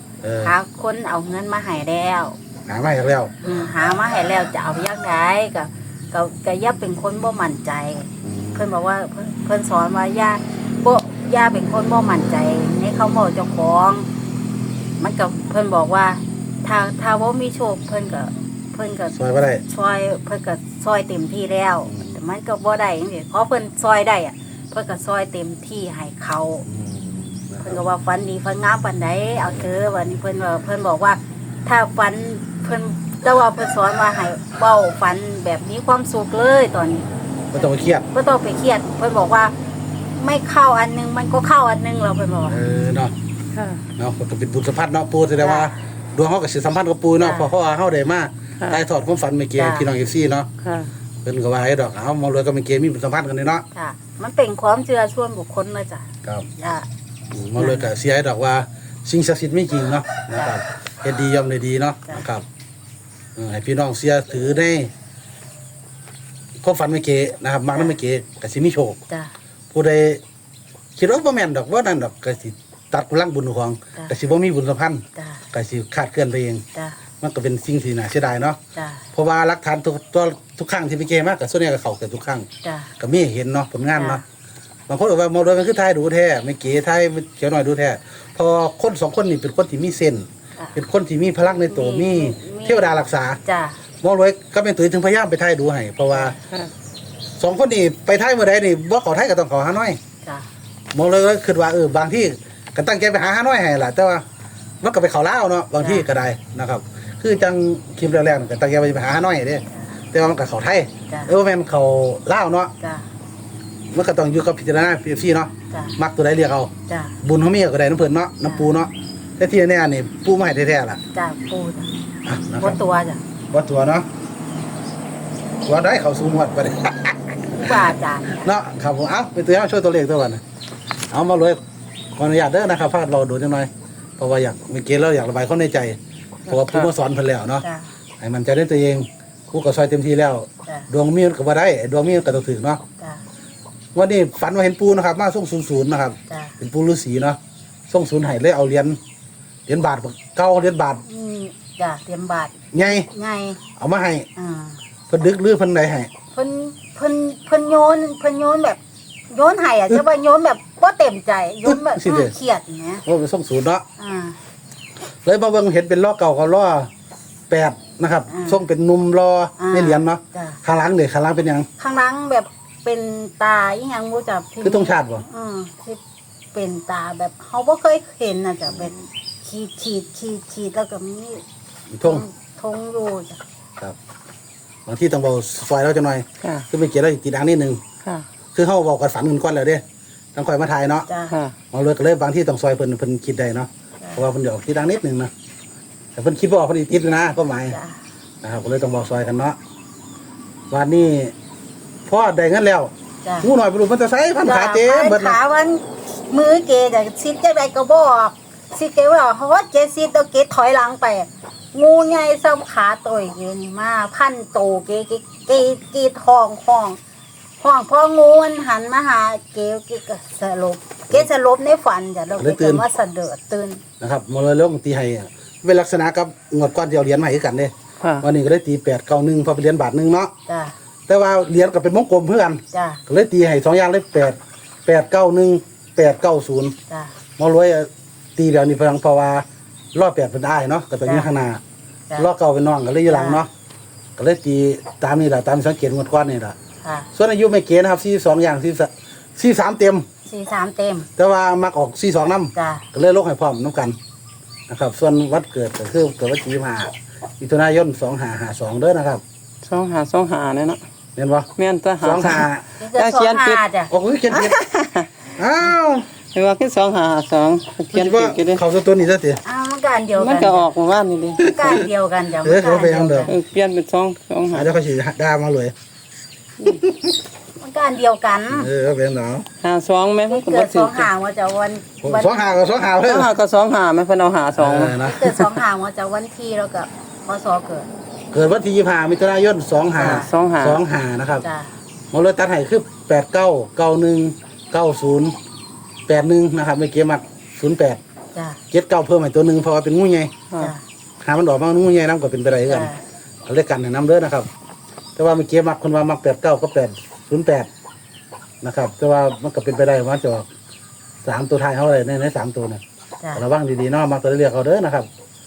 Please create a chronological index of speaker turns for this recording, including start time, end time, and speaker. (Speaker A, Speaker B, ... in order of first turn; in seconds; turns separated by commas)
Speaker A: 0.2-0.5, Speaker B: 0.4-2.4, Speaker A: 2.7-3.3, Speaker B: 3.4-14.1, Speaker A: 8.2-8.7, Speaker B: 15.0-19.2, Speaker A: 19.1-19.6, Speaker B: 19.7-26.6, Speaker A: 21.9-22.2, Speaker A: 26.6-27.8, Speaker B: 27.6-39.6, Speaker A: 37.5-38.1, Speaker B: 40.1-42.6, Speaker A: 42.5-43.1, Speaker C: 43.5-43.9, Speaker A: 44.0-50.5, Speaker B: 45.4-45.7, Speaker B: 47.2-47.5, Speaker B: 49.6-49.9, Speaker C: 50.6-50.9, Speaker A: 51.2-53.6, Speaker B: 53.7-56.9, Speaker A: 57.3-62.5, Speaker B: 60.3-60.6, Speaker A: 63.4-64.9, Speaker A: 66.6-69.0, Speaker A: 69.7-70.2, Speaker A: 71.0-76.6, Speaker B: 75.2-75.4, Speaker B: 76.7-77.0, Speaker A: 77.2-78.6, Speaker B: 78.7-79.1, Speaker A: 79.1-82.5, Speaker B: 82.6-82.9, Speaker A: 83.0-84.2, Speaker B: 83.9-84.2, Speaker A: 84.9-93.4, Speaker B: 91.7-93.8, Speaker A: 94.0-96.4, Speaker C: 96.3-96.7, Speaker A: 97.4-100.0, Speaker A: 100.9-104.2, Speaker A: 104.8-112.7, Speaker B: 105.8-106.1, Speaker B: 109.7-109.9, Speaker B: 111.1-111.3, Speaker B: 112.8-113.1, Speaker A: 113.9-116.7, Speaker B: 115.7-116.0, Speaker B: 116.9-117.2, Speaker A: 117.2-121.0, Speaker B: 121.1-121.9, Speaker A: 122.2-122.8, Speaker B: 122.6-123.2, Speaker A: 123.5-124.1, Speaker A: 125.7-130.4, Speaker B: 127.5-128.5, Speaker A: 131.1-131.6, Speaker A: 132.2-136.0, Speaker C: 136.5-136.9, Speaker A: 136.5-137.7, Speaker B: 137.6-137.9, Speaker A: 138.2-142.8, Speaker A: 143.9-147.4, Speaker B: 146.3-146.6, Speaker A: 147.9-149.0, Speaker A: 149.7-151.0, Speaker B: 151.0-153.6, Speaker A: 152.7-153.1, Speaker A: 153.8-154.3, Speaker B: 154.4-154.8, Speaker A: 155.1-156.1, Speaker B: 156.3-163.1, Speaker A: 161.7-162.3, Speaker A: 163.1-163.8, Speaker B: 164.0-164.4, Speaker A: 165.2-166.9, Speaker A: 167.5-171.7, Speaker B: 168.3-168.6, Speaker B: 169.6-170.6, Speaker B: 171.8-176.0, Speaker A: 174.6-175.2, Speaker B: 176.5-181.4, Speaker A: 181.9-182.2, Speaker B: 182.0-183.4, Speaker A: 184.9-187.8, Speaker A: 188.5-189.8, Speaker A: 190.3-191.1, Speaker B: 191.1-191.3, Speaker C: 191.3-191.6, Speaker A: 191.7-195.3, Speaker A: 196.2-197.8, Speaker B: 197.7-198.0, Speaker A: 198.4-199.6, Speaker A: 200.7-201.3, Speaker A: 202.1-205.4, Speaker B: 203.2-203.5, Speaker B: 204.4-217.0, Speaker B: 217.6-223.8, Speaker A: 222.4-222.8, Speaker A: 224.0-230.3, Speaker C: 228.0-228.3, Speaker B: 230.5-230.8, Speaker A: 231.1-236.8, Speaker B: 232.7-233.0, Speaker B: 236.9-237.1, Speaker A: 237.4-241.6, Speaker B: 241.1-241.3, Speaker A: 242.2-243.5, Speaker B: 243.1-243.4, Speaker A: 244.2-246.6, Speaker B: 246.8-247.1, Speaker A: 247.1-250.1, Speaker B: 250.3-251.1, Speaker A: 251.2-254.0, Speaker B: 252.5-252.9, Speaker A: 254.7-259.2, Speaker C: 259.6-260.8, Speaker A: 261.2-261.5, Speaker C: 261.6-263.6, Speaker A: 262.0-262.7, Speaker B: 262.8-263.9, Speaker A: 263.9-264.6, Speaker C: 264.3-265.1, Speaker A: 265.4-266.1, Speaker C: 266.2-268.6, Speaker A: 267.9-269.4, Speaker B: 269.4-270.7, Speaker C: 270.2-271.5, Speaker B: 271.4-273.4, Speaker A: 271.5-271.9, Speaker A: 272.4-273.3, Speaker C: 273.3-274.7, Speaker A: 274.5-275.7, Speaker A: 276.7-277.1, Speaker B: 277.6-278.7, Speaker A: 278.5-279.5, Speaker C: 279.6-281.1, Speaker B: 280.3-282.5, Speaker A: 282.0-283.3, Speaker C: 283.0-285.0, Speaker A: 284.6-285.5, Speaker B: 285.0-287.9, Speaker A: 288.3-291.4, Speaker C: 290.0-290.8, Speaker B: 290.0-290.3, Speaker B: 291.4-291.7, Speaker A: 292.1-295.4, Speaker A: 296.1-298.0, Speaker B: 298.4-298.6, Speaker A: 298.7-300.3, Speaker B: 300.6-300.8, Speaker A: 301.2-302.9, Speaker B: 302.7-303.0, Speaker A: 303.5-304.5, Speaker A: 305.2-307.7, Speaker A: 308.6-310.5, Speaker A: 311.2-312.8, Speaker A: 313.3-315.1